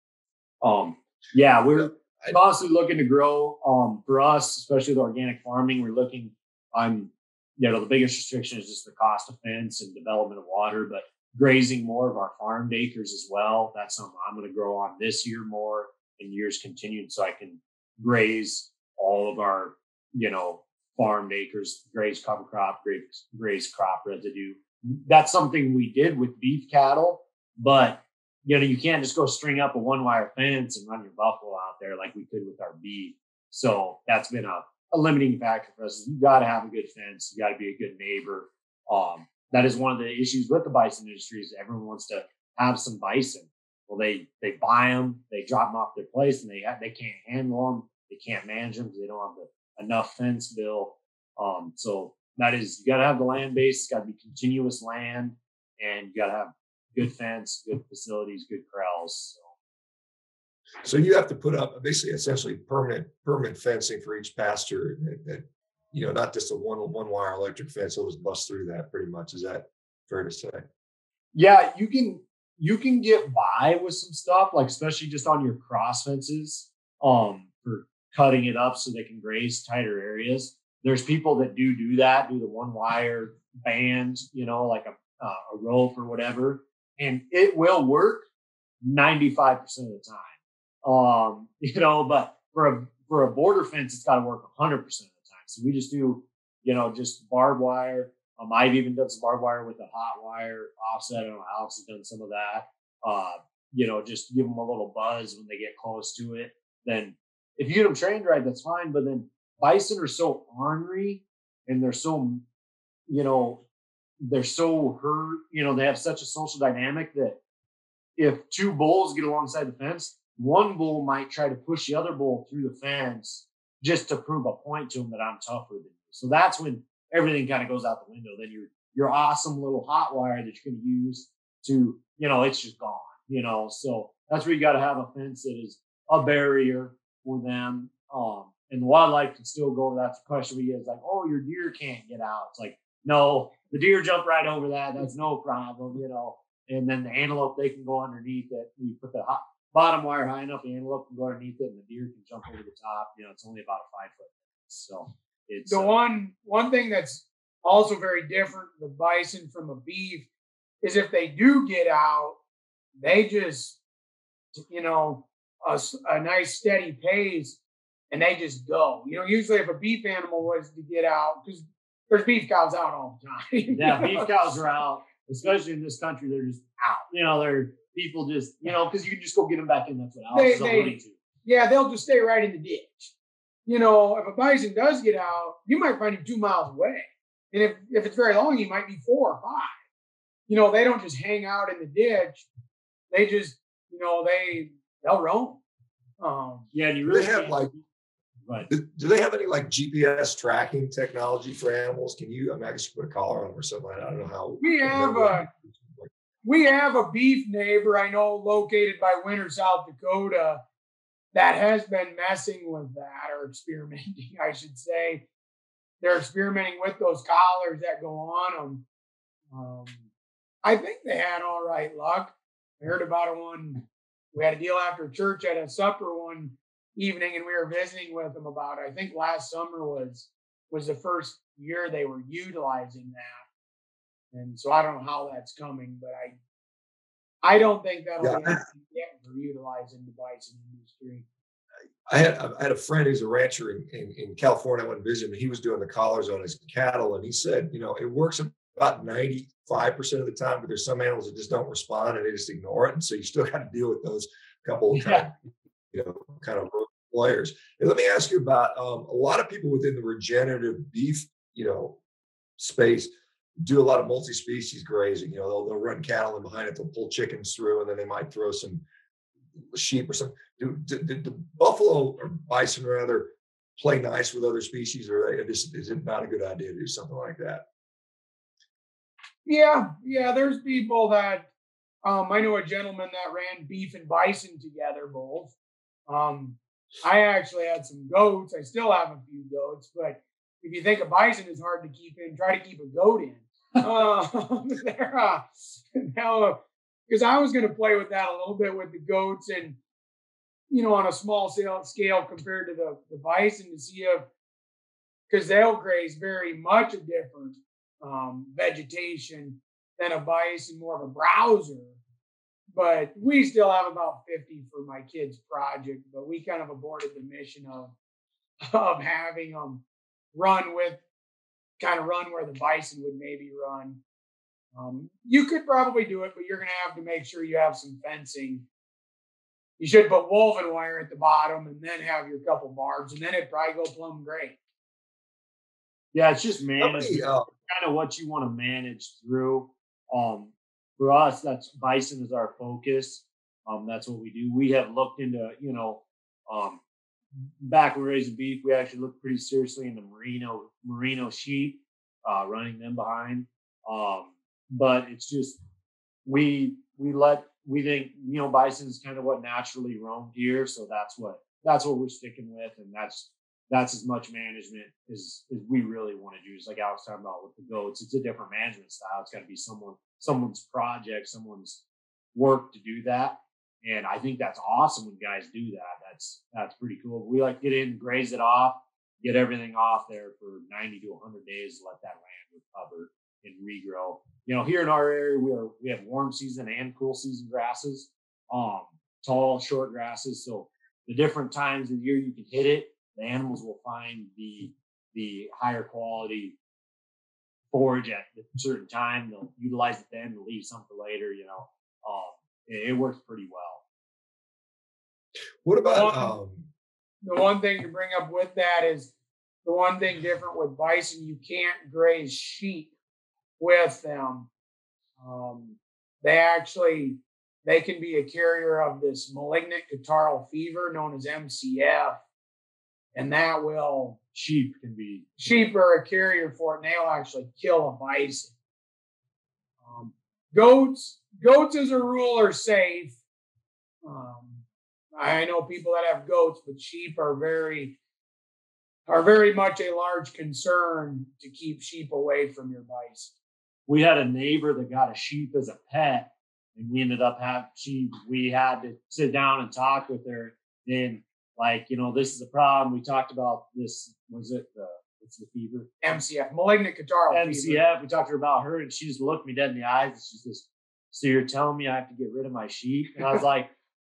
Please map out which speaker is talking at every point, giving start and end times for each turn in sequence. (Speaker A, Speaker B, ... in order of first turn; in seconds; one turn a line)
Speaker A: 0.6-59.5
Speaker B: 60.8-70.7
Speaker A: 71.3-88.2
Speaker A: 88.8-90.3
Speaker A: 90.8-112.4
Speaker A: 113.1-113.6
Speaker A: 114.2-117.4
Speaker A: 118.2-156.0
Speaker C: 155.7-160.3
Speaker C: 160.8-162.4
Speaker C: 163.0-163.8
Speaker C: 164.6-167.6
Speaker C: 168.1-174.3
Speaker A: 173.7-181.2
Speaker C: 180.3-183.1
Speaker C: 183.7-189.7
Speaker C: 190.5-192.5
Speaker C: 193.1-195.6
Speaker C: 196.2-196.7
Speaker A: 196.7-197.8
Speaker B: 197.1-197.7
Speaker B: 198.7-206.1
Speaker C: 204.6-205.5
Speaker C: 206.4-210.6
Speaker C: 211.3-215.2
Speaker C: 216.0-218.8
Speaker C: 219.5-220.0
Speaker C: 220.6-233.4
Speaker C: 234.3-236.3
Speaker C: 237.4-241.2
Speaker B: 238.2-238.6
Speaker B: 242.1-255.3
Speaker A: 254.9-255.2
Speaker B: 255.9-262.0
Speaker B: 262.6-268.8
Speaker B: 269.7-277.6
Speaker C: 279.4-281.5
Speaker C: 282.0-285.5
Speaker C: 286.1-299.8
Speaker C: 300.7-304.3
Speaker C: 305.3-312.0
Speaker C: 312.7-317.9
Speaker C: 318.6-321.0
Speaker C: 321.8-324.0
Speaker C: 324.7-328.6
Speaker C: 329.8-334.6
Speaker A: 336.1-346.8
Speaker B: 336.8-337.5
Speaker A: 347.6-355.6
Speaker A: 356.2-371.8
Speaker A: 372.3-396.6
Speaker A: 397.7-403.8
Speaker B: 405.6-406.7
Speaker C: 405.8-406.3
Speaker C: 407.2-409.1
Speaker C: 409.6-412.9
Speaker C: 413.6-414.5
Speaker C: 415.2-422.2
Speaker C: 423.1-424.2
Speaker A: 424.3-425.6
Speaker C: 425.4-428.5
Speaker C: 429.8-433.2
Speaker C: 434.0-434.6
Speaker C: 435.1-438.0
Speaker C: 439.1-443.3
Speaker A: 443.9-455.9
Speaker C: 456.0-457.8
Speaker A: 457.3-463.7